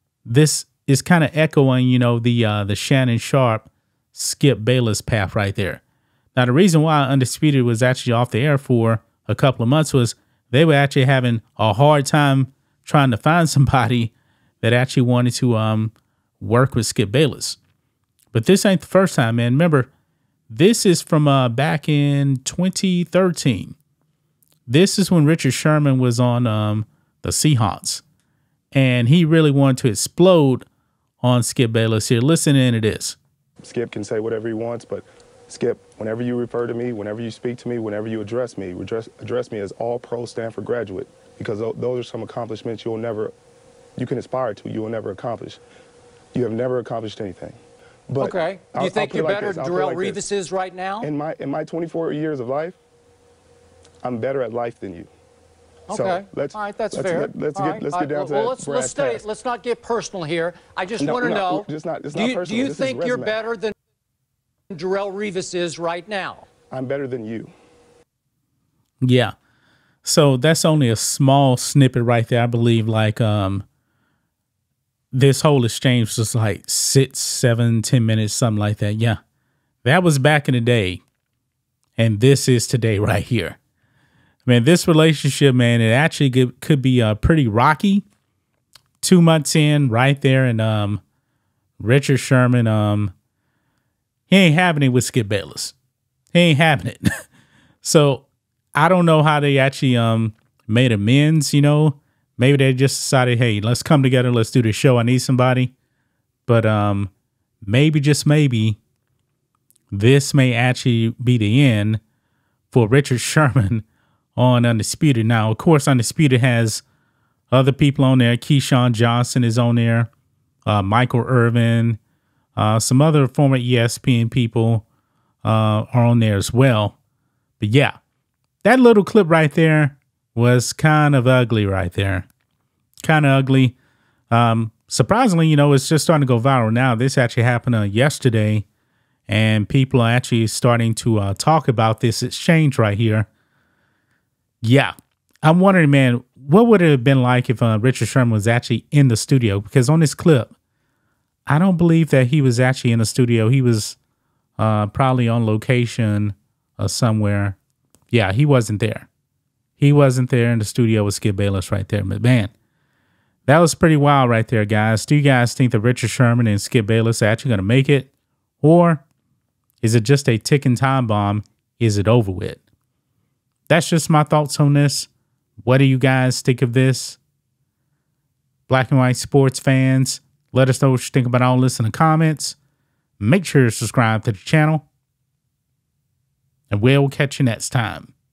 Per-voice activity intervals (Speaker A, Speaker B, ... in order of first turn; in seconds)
Speaker A: 0.2-5.8, 6.3-17.6, 18.3-19.9, 20.5-23.8, 24.7-28.0, 28.7-30.6, 31.2-33.2, 69.0-69.3, 70.0-73.7, 75.1-79.2, 79.8-81.0, 82.0-83.6, 84.5-88.0, 89.0-91.0, 91.8-93.1, 94.3-95.7, 96.3-97.0, 97.8-105.7, 106.5-107.1, 107.6-108.8, 109.9-112.0, 112.7-113.8, 114.3-116.8, 117.5-120.1, 120.7-122.0, 122.5-124.8, 125.4-127.0, 127.6-127.9, 128.6-132.3, 133.0-133.8, 134.3-138.6, 139.3-143.3, 144.6-150.5, 151.5-154.0, 154.6-157.6, 158.1-159.1, 159.8-162.5, 163.4-168.1, 168.6-169.0, 169.8-172.6, 173.7-175.1, 175.6-177.2, 178.7-182.6, 183.2-184.8, 186.7-188.1
Speaker B: 33.6-43.3, 44.0-45.6, 46.3-50.2, 51.0-52.8, 54.0-55.1, 55.9-59.2, 61.0-63.4, 66.7-67.5
Speaker C: 48.2-51.1, 55.9-63.7, 64.7-66.4